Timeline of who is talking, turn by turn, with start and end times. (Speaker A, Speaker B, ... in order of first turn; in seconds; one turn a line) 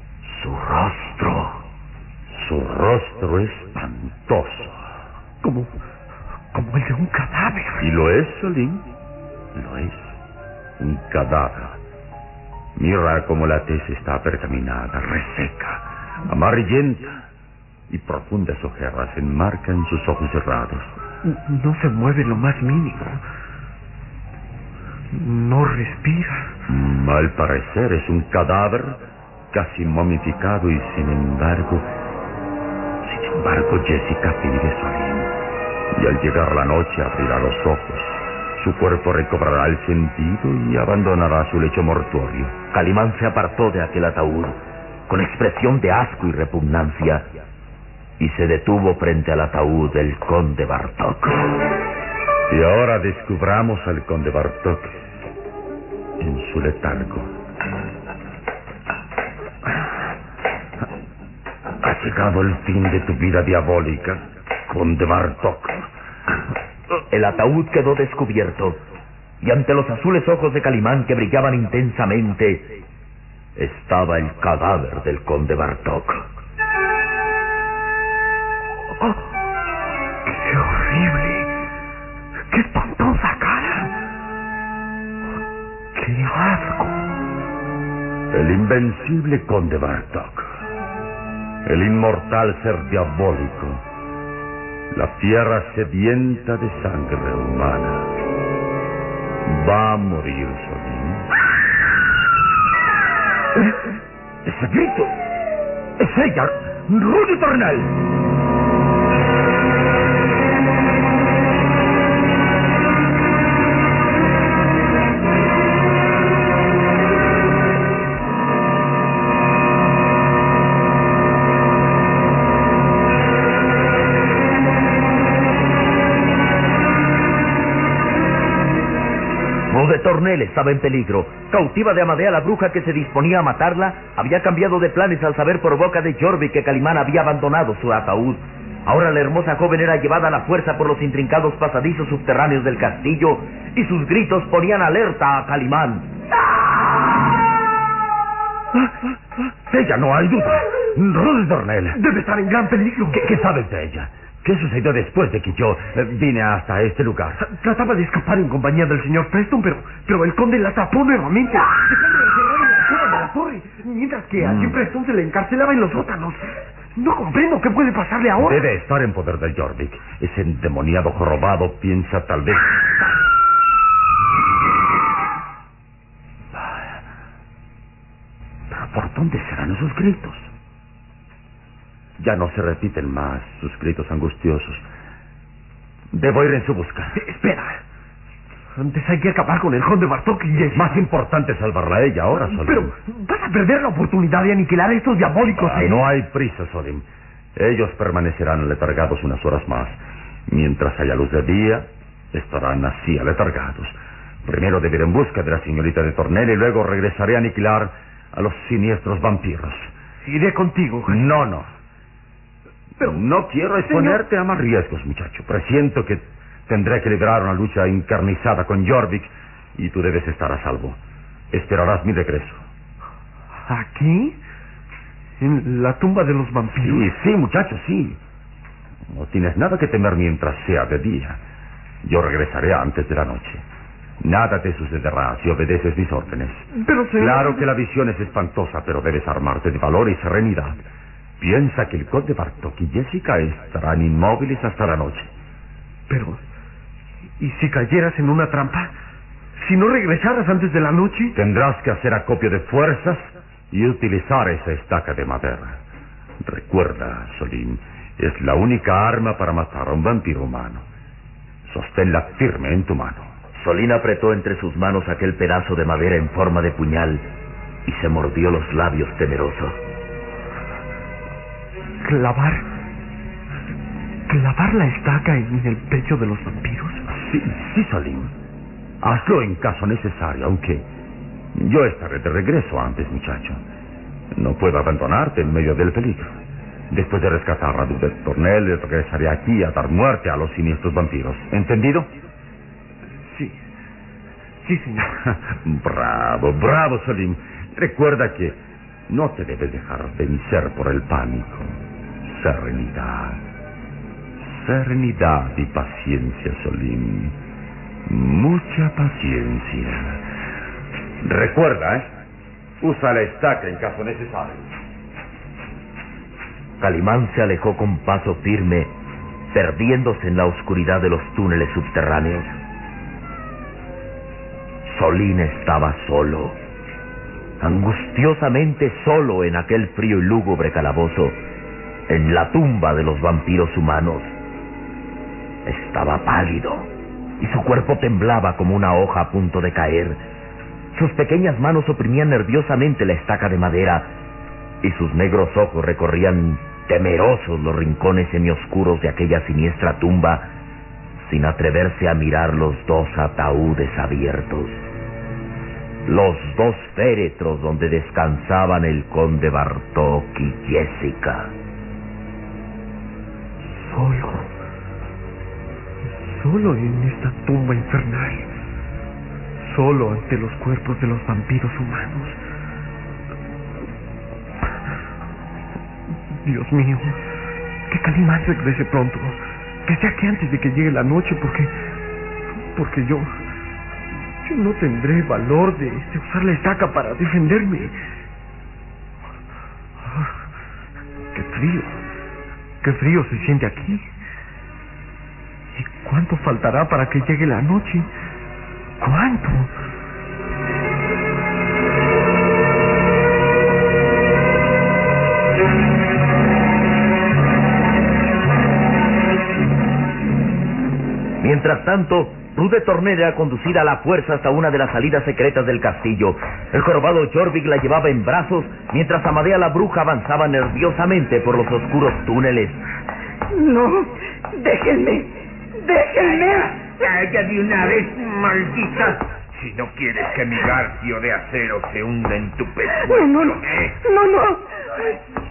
Speaker A: 0.3-1.6
Speaker B: 2.3-4.8
Speaker C: 5.4-5.7
Speaker C: 6.5-7.9
Speaker B: 7.8-8.8
Speaker B: 9.5-10.2
Speaker B: 10.8-11.8
Speaker B: 12.8-17.2
Speaker B: 17.9-20.9
Speaker C: 21.2-23.2
Speaker C: 25.1-26.5
Speaker B: 26.7-31.9
Speaker B: 33.0-35.3
Speaker B: 35.9-42.5
Speaker A: 42.7-47.3
Speaker A: 48.2-51.4
Speaker B: 52.5-55.0
Speaker B: 56.2-57.3
Speaker B: 61.8-65.9
Speaker A: 67.1-68.8
Speaker A: 69.4-72.7
Speaker A: 73.6-76.3
Speaker C: 80.2-81.5
Speaker C: 82.5-83.9
Speaker C: 85.9-87.0
Speaker B: 88.3-90.5
Speaker B: 91.6-93.8
Speaker B: 94.9-98.1
Speaker B: 99.4-101.3
Speaker B: 104.4-105.2
Speaker B: 106.0-107.9
Speaker A: 129.7-146.1
Speaker B: 149.6-152.0
Speaker C: 151.9-153.2
Speaker B: 153.1-157.4
Speaker C: 157.4-168.7
Speaker B: 164.4-164.8
Speaker B: 168.3-172.8
Speaker B: 178.7-180.5
Speaker B: 182.2-184.8
Speaker B: 186.1-187.2
Speaker C: 187.1-187.8
Speaker C: 188.7-191.0
Speaker B: 190.7-192.9
Speaker C: 192.3-196.0
Speaker B: 195.5-209.9
Speaker C: 210.2-211.3
Speaker B: 211.1-211.7
Speaker B: 213.0-221.0
Speaker C: 213.8-214.2
Speaker B: 221.5-222.6
Speaker C: 223.6-224.4
Speaker C: 225.4-227.1
Speaker B: 226.8-228.2
Speaker B: 229.1-231.4
Speaker B: 232.0-233.6
Speaker B: 234.2-240.8
Speaker C: 236.7-237.7
Speaker B: 241.4-245.3
Speaker C: 246.1-246.4
Speaker C: 247.4-248.9
Speaker C: 249.6-251.3
Speaker B: 251.3-255.8
Speaker B: 256.4-260.8
Speaker B: 261.6-263.3
Speaker A: 263.5-267.2
Speaker A: 267.9-269.8
Speaker C: 272.0-272.7
Speaker C: 274.3-277.1
Speaker B: 277.1-278.3
Speaker B: 279.0-280.9
Speaker B: 281.5-283.6
Speaker B: 284.3-286.4
Speaker B: 286.9-292.1
Speaker C: 293.2-293.6
Speaker C: 294.6-295.1
Speaker B: 295.1-303.4
Speaker B: 304.4-307.4
Speaker B: 308.1-310.2
Speaker B: 311.2-312.1
Speaker B: 312.8-314.6
Speaker A: 316.8-318.9
Speaker A: 319.5-322.6
Speaker A: 324.9-326.6
Speaker A: 327.6-331.4
Speaker A: 332.1-334.3
Speaker A: 335.6-340.2
Speaker A: 340.9-344.1
Speaker A: 344.8-350.5
Speaker A: 351.2-354.8
Speaker A: 356.1-361.5
Speaker C: 363.6-364.5
Speaker C: 366.1-368.5
Speaker C: 369.6-372.4
Speaker C: 376.4-377.2
Speaker C: 377.9-381.7
Speaker C: 382.7-383.4
Speaker C: 384.4-388.0
Speaker C: 390.0-390.3
Speaker C: 391.3-392.0
Speaker C: 392.8-394.1
Speaker C: 395.7-398.1
Speaker C: 399.0-399.7
Speaker A: 411.4-422.9
Speaker D: 423.5-426.7
Speaker E: 426.2-433.9
Speaker D: 433.0-434.6